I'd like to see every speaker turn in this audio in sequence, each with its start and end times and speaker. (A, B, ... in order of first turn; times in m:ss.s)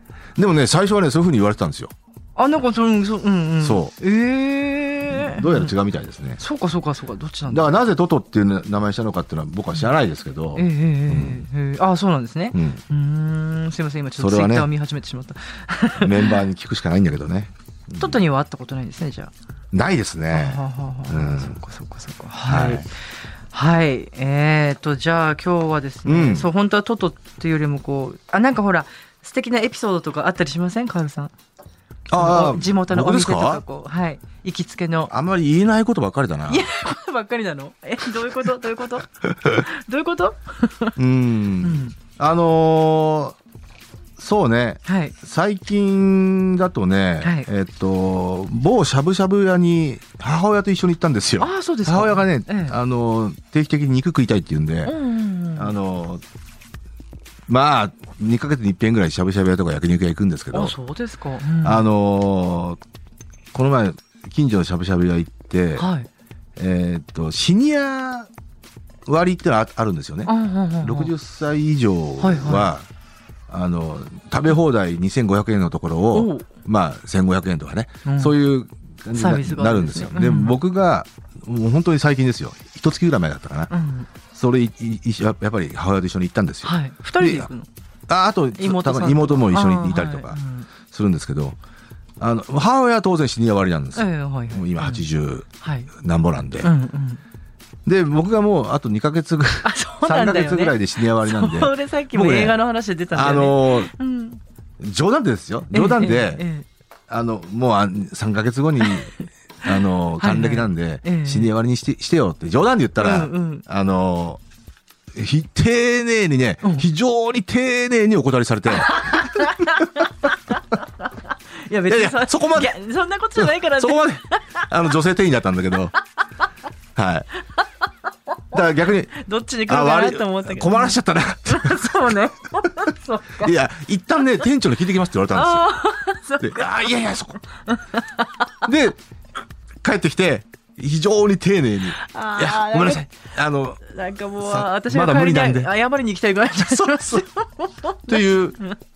0:00.4-0:01.9 A
0:02.4-0:05.7 B
0:03.6-0:03.9 A
0:05.1-0:06.4 A
0:06.4-0:07.7 B
0:07.5-0:11.5 A
0:10.6-0:16.4 B
0:12.5-0:12.8 A
0:14.1-0:14.7 A
0:16.0-0:18.2 A
0:18.0-0:19.3 B
0:19.7-0:21.6 A
0:20.3-0:31.3 B
0:22.4-0:22.9 A
0:26.0-0:26.5 A
0:32.1-0:33.6 A
0:32.1-0:35.1 B
0:35.1-0:36.7 A
0:36.5-0:40.9 B
0:41.0-0:43.4 A
0:41.6-0:42.0 B
0:44.2-0:55.0 A
0:44.8-0:45.2 B
0:47.2-0:47.5 B
0:51.4-0:52.8 B
0:54.8-0:55.8 B
0:55.6-0:56.2 A
0:57.5-1:00.8 A
1:00.5-1:01.9 B
1:01.6-1:02.8 A
1:03.5-1:05.9 A
1:05.8-1:06.1 B
1:06.6-1:08.3 A
1:09.1-1:12.9 A
1:10.2-1:11.1 B
1:12.2-1:12.7 B
1:13.5-1:23.7 A
1:16.1-1:16.5 B
1:18.0-1:18.4 B
1:19.1-1:20.6 B
1:23.7-1:24.1 B
1:24.3-1:27.5 A
1:26.6-1:27.7 B
1:28.1-1:31.6 A
1:28.6-1:30.7 B
1:32.2-1:36.7 A
1:33.9-1:35.0 B
1:35.6-1:35.9 B
1:36.6-1:37.2 B
1:37.8-1:42.6 A
1:39.6-1:44.4 B
1:43.1-1:43.9 A
1:44.8-1:46.5 A
1:45.7-1:46.6 B
1:47.1-1:54.4 A
1:48.8-1:51.5 B
1:53.0-1:53.6 B
1:55.1-2:00.0 A
1:58.7-2:04.7 B
2:01.9-2:02.7 A
2:03.4-2:05.9 A
2:07.0-2:07.3 A
2:08.5-2:09.1 A
2:08.5-2:13.6 B
2:09.6-2:15.7 A
2:15.3-2:18.5 B
2:16.4-2:17.4 A
2:18.6-2:19.0 A
2:19.8-2:23.8 A
2:22.0-2:23.2 B
2:23.8-2:28.8 B
2:24.4-2:25.8 A
2:26.5-2:27.2 A
2:28.1-2:28.6 A